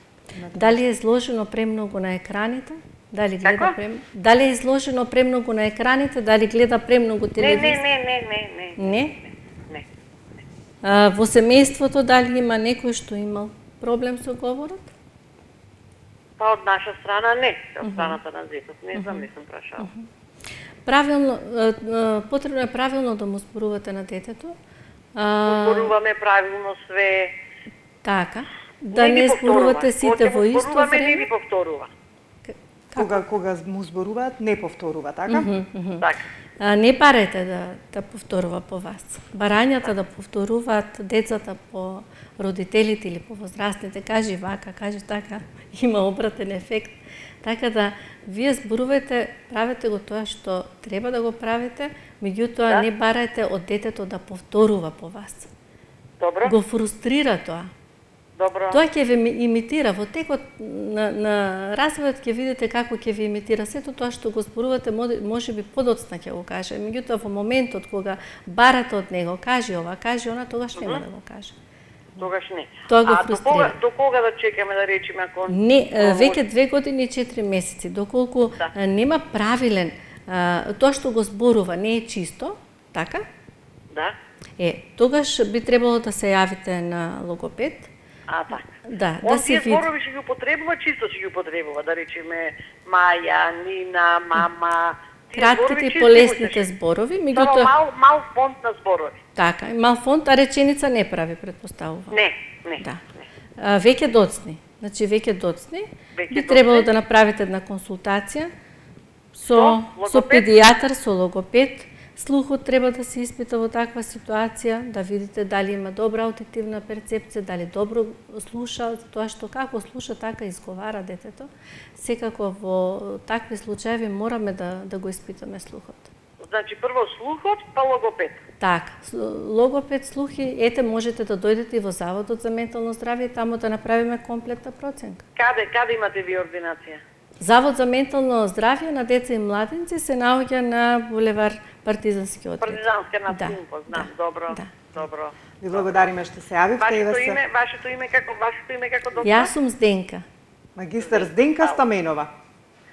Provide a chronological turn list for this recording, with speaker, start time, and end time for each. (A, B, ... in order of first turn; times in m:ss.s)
0:00.3-0:00.8 A
0:00.5-0:07.8 B
0:03.4-0:03.8 C
0:07.4-0:09.9 C
0:08.8-0:09.2 B
0:10.8-0:14.9 B
0:16.4-0:19.9 C
0:17.8-0:18.2 B
0:18.9-0:19.3 B
0:19.8-0:20.1 B
0:20.8-0:24.6 B
0:25.2-0:25.9 B
0:25.4-0:27.3 C
0:28.0-0:31.3 B
0:28.9-0:31.9 C
0:32.5-0:33.2 B
0:33.0-0:35.5 A
0:35.3-0:36.1 B
0:36.0-0:36.2 C
0:36.6-0:55.5 B
0:56.2-0:56.5 C
0:56.4-0:57.7 B
0:58.4-0:58.8 C
0:58.7-1:11.6 B
1:10.8-1:11.0 C
1:12.2-1:16.4 C
1:12.9-1:13.8 B
1:15.5-1:23.2 B
1:23.9-1:24.2 C
1:24.6-1:27.9 B
1:28.3-1:28.7 C
1:28.8-1:29.9 B
1:29.2-1:36.7 C
1:35.3-1:37.7 B
1:37.3-1:39.2 C
1:39.4-1:42.2 B
1:42.1-1:43.2 C
1:42.8-1:43.0 B
1:43.6-1:48.5 B
1:46.2-1:46.9 C
1:49.4-2:06.1 B
1:49.5-1:50.6 C
2:06.4-2:08.4 C
2:08.6-2:15.2 B
2:15.4-2:17.0 C
2:17.4-2:24.7 B
2:22.6-2:26.1 C
2:25.6-2:27.4 A
2:26.8-2:29.5 C
2:29.2-2:30.3 B
2:30.8-2:32.3 A
2:31.0-2:31.8 C